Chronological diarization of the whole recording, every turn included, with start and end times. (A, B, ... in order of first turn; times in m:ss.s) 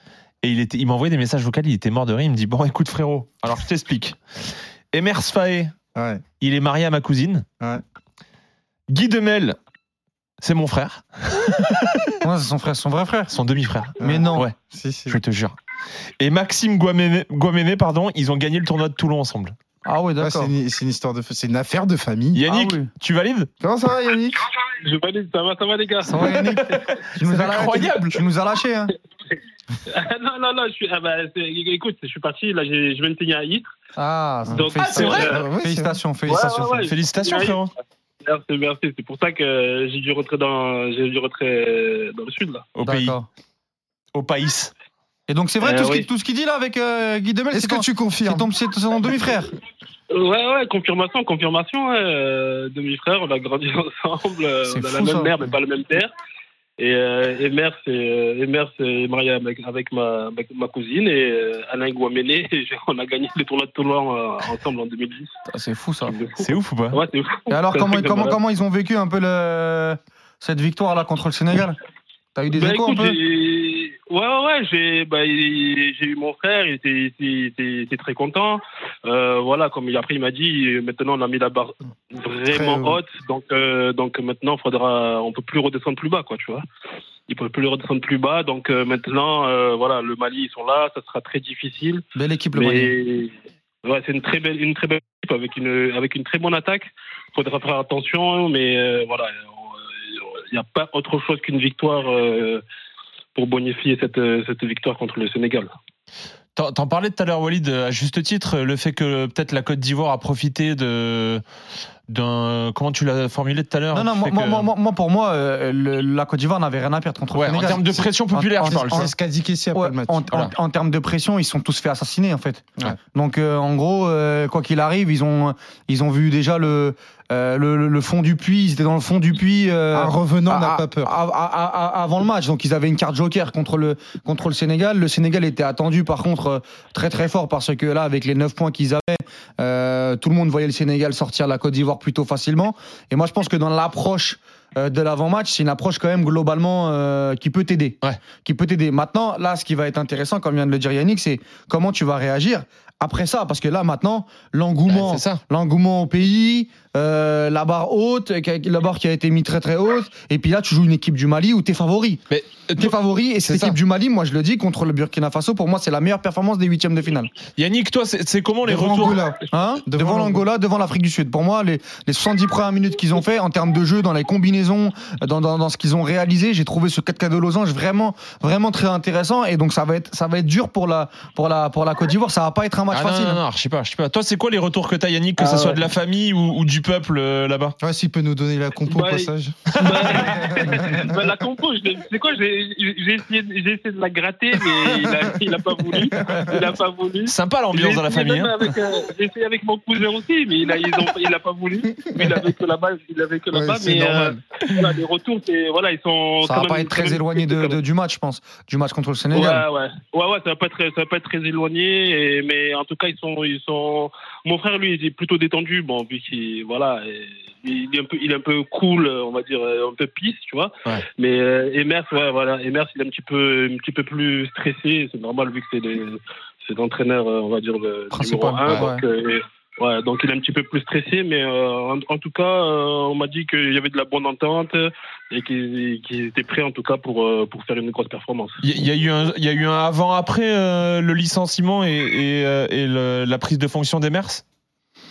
0:00.4-0:05.7 A
0:05.9-0:06.2 B
0:06.4-0:07.4 A
0:08.9-0:09.6 A
0:10.4-0:12.1 A
0:12.2-0:13.3 C
0:13.3-0:14.5 A
0:14.0-0:15.2 B
0:14.0-0:14.5 C
0:15.1-0:15.5 A
0:16.2-0:19.5 A
0:19.8-0:20.5 C
0:20.2-0:22.4 B
0:22.3-0:23.5 A
0:22.5-0:22.9 C
0:23.6-0:24.4 B
0:24.8-0:26.4 D
0:26.0-0:28.9 C
0:26.6-0:28.2 A
0:29.8-0:33.7 D
0:34.0-0:36.9 C
0:34.5-0:35.4 D
0:34.8-0:35.4 A
0:35.0-0:36.0 B
0:36.3-0:37.6 D
0:36.8-0:37.7 A
0:38.2-0:42.6 D
0:42.8-0:43.2 A
0:42.8-0:43.3 C
0:44.1-0:44.7 A
0:45.3-0:49.5 C
0:45.6-0:46.1 D
0:47.5-0:48.5 B
0:50.1-0:56.1 D
0:54.7-0:55.3 C
0:56.8-1:05.3 D
1:05.5-1:06.2 C
1:06.0-1:08.4 D
1:06.4-1:07.0 A
1:07.5-1:11.8 C
1:12.3-1:13.2 C
1:12.5-1:26.6 D
1:22.5-1:22.9 B
1:27.3-1:32.0 D
1:32.1-1:33.0 C
1:32.5-1:33.3 D
1:33.8-1:42.6 D
1:43.4-1:45.7 D
1:46.5-1:51.4 A
1:52.1-1:54.7 A
1:53.9-1:59.1 C
1:57.3-1:59.1 A
1:58.9-2:00.2 B
1:59.7-2:47.3 C
2:09.9-2:11.1 B
2:34.9-2:35.4 A
2:42.3-2:42.9 A
2:43.4-2:43.8 A
2:47.6-2:49.2 A
2:48.6-2:50.4 B
2:49.5-3:03.4 C
3:02.9-3:07.8 A
3:05.4-3:05.8 D
3:07.8-3:11.1 B
3:08.9-3:27.8 D
3:16.3-3:16.5 B
3:17.2-3:18.5 A
3:23.5-3:24.4 B
3:26.4-3:29.6 C
3:29.3-3:58.6 D
3:48.1-3:49.0 C
3:58.6-4:04.4 A